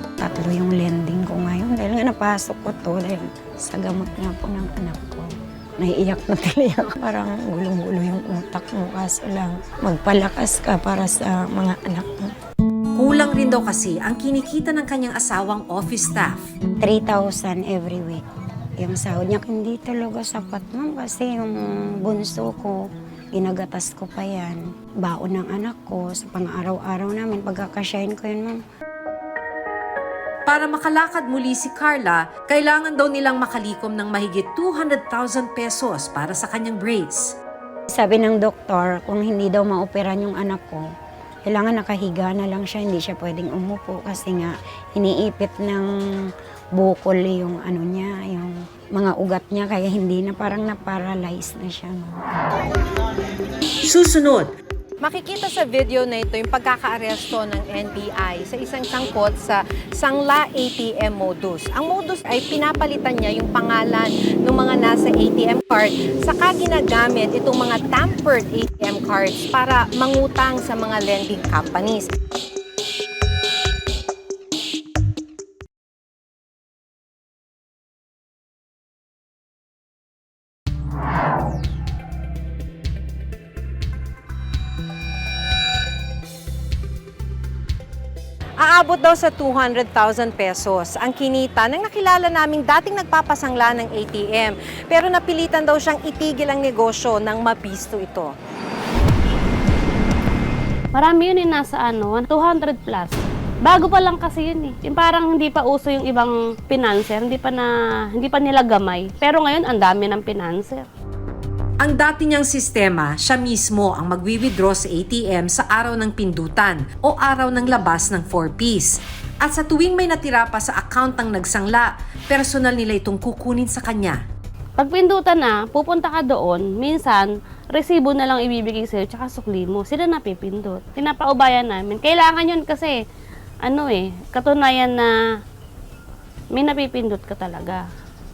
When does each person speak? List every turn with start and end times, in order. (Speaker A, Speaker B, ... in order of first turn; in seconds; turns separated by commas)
Speaker A: 0.2-12.3, Speaker B: 13.0-16.5, Speaker A: 16.8-18.2, Speaker A: 18.8-28.6, Speaker B: 30.4-37.4, Speaker A: 37.9-40.8, Speaker A: 41.5-45.9, Speaker A: 46.7-52.4, Speaker B: 53.8-54.5, Speaker C: 55.0-72.1, Speaker C: 88.6-98.3, Speaker D: 100.9-110.8, Speaker B: 111.8-124.2, Speaker D: 124.8-133.0, Speaker D: 133.6-135.2, Speaker D: 136.5-137.8